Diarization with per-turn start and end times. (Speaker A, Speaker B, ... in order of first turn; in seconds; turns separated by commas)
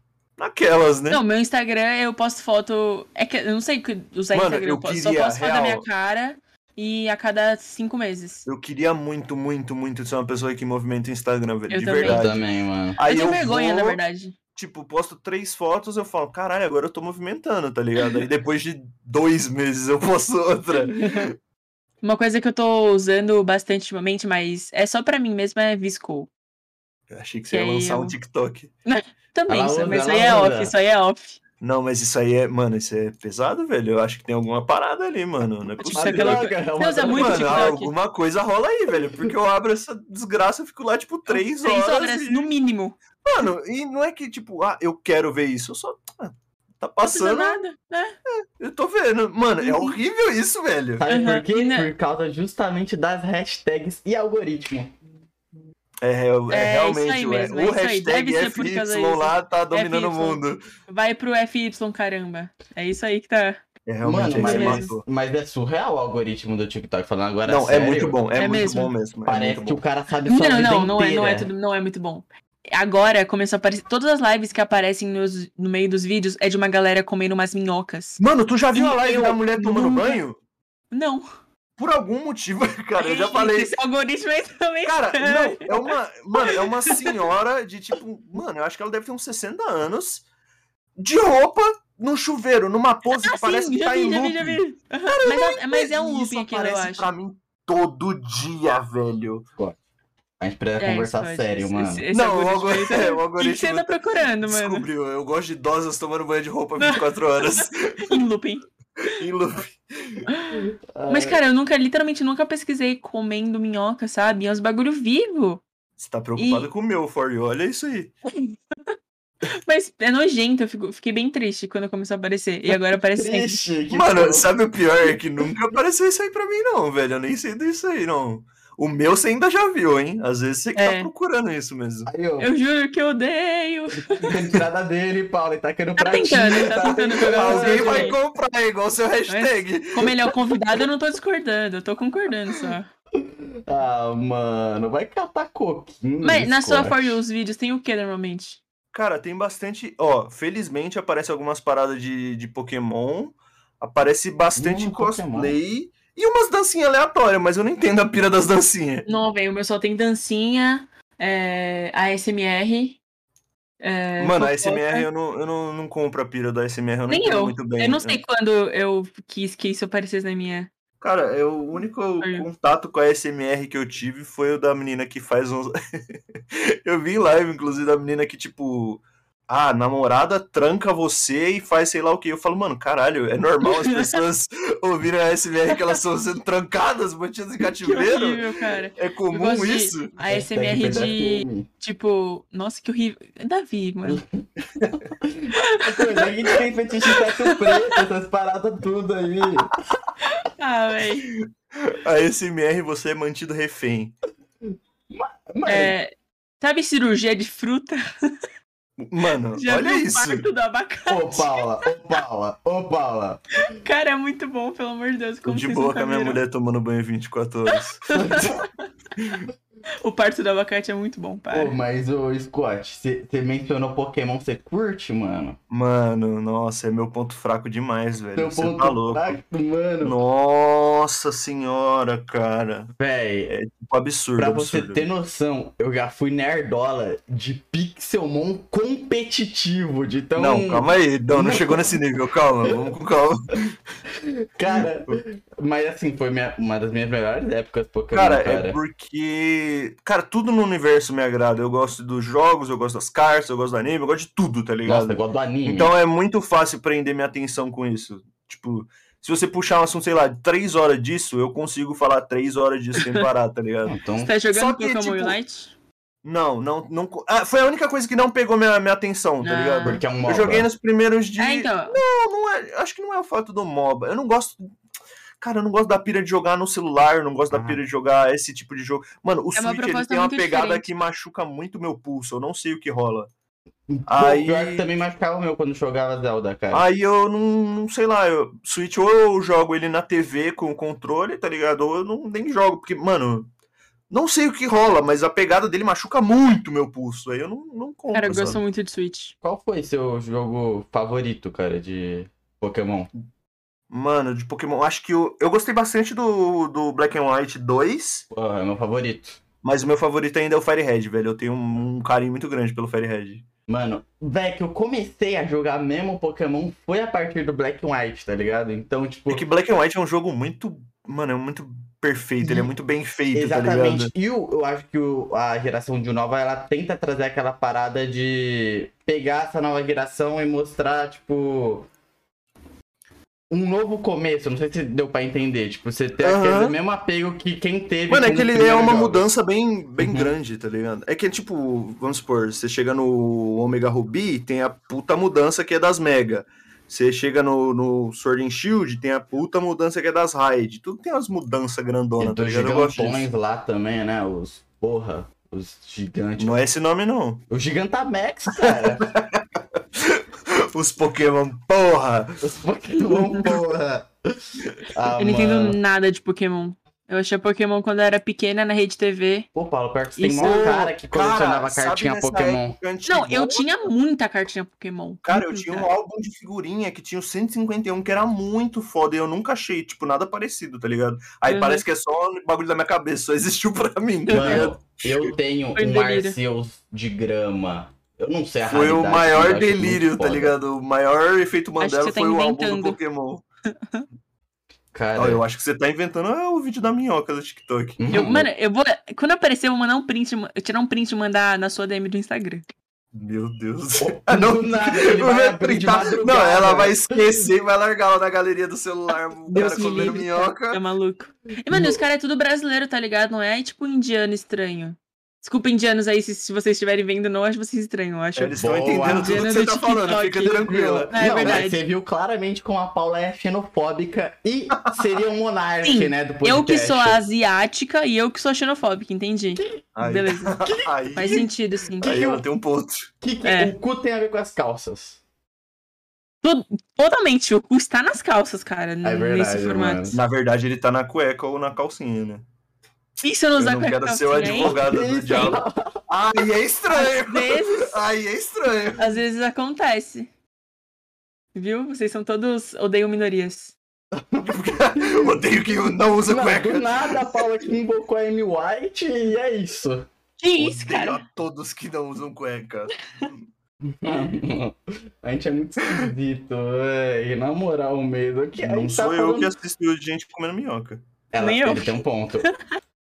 Speaker A: 0.4-1.2, Speaker B: 1.1-8.4, Speaker A: 4.3-5.8, Speaker A: 8.4-12.4, Speaker B: 11.7-12.3, Speaker C: 12.0-13.0, Speaker A: 12.9-14.0, Speaker B: 13.0-14.3, Speaker A: 14.6-21.3, Speaker B: 20.8-21.3, Speaker B: 22.0-26.3, Speaker A: 27.1-28.7, Speaker B: 27.5-28.1, Speaker B: 28.9-31.4, Speaker C: 29.5-30.7, Speaker A: 31.6-36.5, Speaker B: 35.8-37.9, Speaker C: 35.9-37.8, Speaker A: 37.0-42.5, Speaker C: 38.9-39.3, Speaker B: 41.3-43.0, Speaker A: 43.2-47.6, Speaker B: 47.0-48.2, Speaker A: 48.3-51.0, Speaker B: 49.6-50.0, Speaker C: 51.0-54.9, Speaker B: 51.1-51.9, Speaker A: 56.0-60.6, Speaker B: 56.5-63.6, Speaker A: 63.9-65.0, Speaker C: 64.0-68.2, Speaker B: 64.4-64.9, Speaker A: 67.5-69.8, Speaker B: 68.3-68.9, Speaker C: 69.2-71.5, Speaker B: 70.3-78.2, Speaker A: 78.2-80.4, Speaker B: 78.7-80.2, Speaker B: 80.9-81.3, Speaker A: 81.8-83.8, Speaker B: 83.0-87.1, Speaker A: 84.8-90.2, Speaker A: 91.0-99.5, Speaker B: 93.1-97.1, Speaker C: 100.4-102.0, Speaker B: 100.8-104.8, Speaker A: 102.1-108.2, Speaker B: 107.5-108.6, Speaker A: 109.0-110.3, Speaker B: 110.3-115.6, Speaker C: 110.5-111.4, Speaker A: 116.0-118.1, Speaker B: 116.4-116.7, Speaker B: 119.5-123.6, Speaker C: 122.7-124.5, Speaker A: 123.9-132.1, Speaker B: 130.8-131.1, Speaker C: 132.1-132.5, Speaker B: 132.4-134.3, Speaker C: 134.1-138.2, Speaker B: 136.0-138.2, Speaker A: 137.3-140.3, Speaker B: 139.3-142.9, Speaker C: 143.2-147.2, Speaker B: 146.2-148.6, Speaker A: 148.9-159.1, Speaker C: 154.6-155.6, Speaker B: 159.1-163.0, Speaker B: 163.8-165.1, Speaker A: 164.2-168.2, Speaker B: 167.1-170.7, Speaker A: 171.0-190.1, Speaker B: 172.2-172.5, Speaker B: 183.6-184.2, Speaker B: 187.6-194.2, Speaker C: 190.2-191.7, Speaker C: 194.0-194.4, Speaker A: 194.8-195.0, Speaker C: 195.2-199.8, Speaker B: 195.5-198.0, Speaker B: 200.2-201.3, Speaker A: 201.3-204.1, Speaker C: 204.6-205.9, Speaker B: 205.7-208.3, Speaker A: 209.0-210.4, Speaker B: 209.6-211.6, Speaker C: 211.1-213.4, Speaker B: 213.6-216.4, Speaker A: 215.4-218.4, Speaker B: 217.7-218.8, Speaker C: 218.1-218.5, Speaker A: 219.2-219.4, Speaker B: 220.0-221.8, Speaker C: 221.5-225.6, Speaker A: 225.7-229.4, Speaker C: 228.3-230.2, Speaker A: 230.0-232.9, Speaker C: 233.0-233.5, Speaker A: 233.5-235.1, Speaker C: 234.3-242.0, Speaker A: 240.4-243.7, Speaker C: 244.1-248.8, Speaker A: 244.8-245.2, Speaker A: 248.1-264.0, Speaker C: 254.8-255.9, Speaker C: 263.8-264.3, Speaker B: 264.2-265.7, Speaker A: 264.5-265.4, Speaker A: 266.2-274.6, Speaker B: 269.4-270.0, Speaker C: 269.8-270.7, Speaker B: 271.4-272.0, Speaker A: 275.4-283.3, Speaker C: 277.5-277.8, Speaker B: 279.6-280.9, Speaker C: 283.9-286.9, Speaker A: 284.1-284.8, Speaker A: 286.7-293.5, Speaker A: 294.1-298.6, Speaker B: 298.1-299.3, Speaker C: 299.4-303.1, Speaker A: 303.9-308.2, Speaker C: 308.3-309.4, Speaker A: 309.6-313.4, Speaker C: 313.7-319.4, Speaker A: 319.3-324.1, Speaker C: 322.4-322.7, Speaker C: 323.3-331.9, Speaker C: 333.5-339.2, Speaker A: 336.2-336.8, Speaker A: 338.1-353.3, Speaker C: 340.0-340.3, Speaker C: 352.2-356.6, Speaker A: 356.4-357.4, Speaker C: 357.5-359.1, Speaker A: 358.6-362.4, Speaker C: 362.4-365.8, Speaker B: 363.1-363.4, Speaker B: 365.2-369.5, Speaker C: 369.5-372.8, Speaker B: 370.2-370.6, Speaker A: 370.4-373.7, Speaker B: 373.1-375.9, Speaker A: 375.2-385.3, Speaker B: 381.5-381.8, Speaker B: 384.3-384.7, Speaker C: 384.3-390.6, Speaker B: 385.8-386.4, Speaker A: 388.6-393.4, Speaker B: 391.8-393.0, Speaker C: 394.9-395.4, Speaker A: 395.1-398.0, Speaker C: 398.0-398.5, Speaker B: 398.1-402.6, Speaker A: 403.1-410.8, Speaker C: 404.0-407.4, Speaker B: 409.5-421.8, Speaker C: 409.6-410.1, Speaker C: 411.7-412.0, Speaker A: 418.4-421.7, Speaker C: 418.6-419.5, Speaker C: 420.6-427.2, Speaker B: 425.8-430.6, Speaker C: 429.6-429.8, Speaker A: 429.9-431.5, Speaker C: 430.6-431.4, Speaker B: 431.1-432.2, Speaker C: 432.0-432.4, Speaker A: 432.0-433.1, Speaker C: 433.2-435.2, Speaker B: 433.4-433.7, Speaker B: 436.4-440.1, Speaker C: 439.0-440.2, Speaker A: 440.1-442.4, Speaker B: 443.2-445.6, Speaker A: 443.6-449.2, Speaker C: 444.5-446.0, Speaker B: 446.9-448.0, Speaker B: 449.0-450.3, Speaker B: 451.5-453.8, Speaker C: 454.1-455.4, Speaker A: 454.4-457.5, Speaker C: 456.3-460.1, Speaker B: 460.4-461.2, Speaker A: 460.6-463.4, Speaker C: 463.8-469.5, Speaker A: 465.8-466.1, Speaker A: 468.6-471.0, Speaker C: 471.3-472.5, Speaker B: 471.4-472.7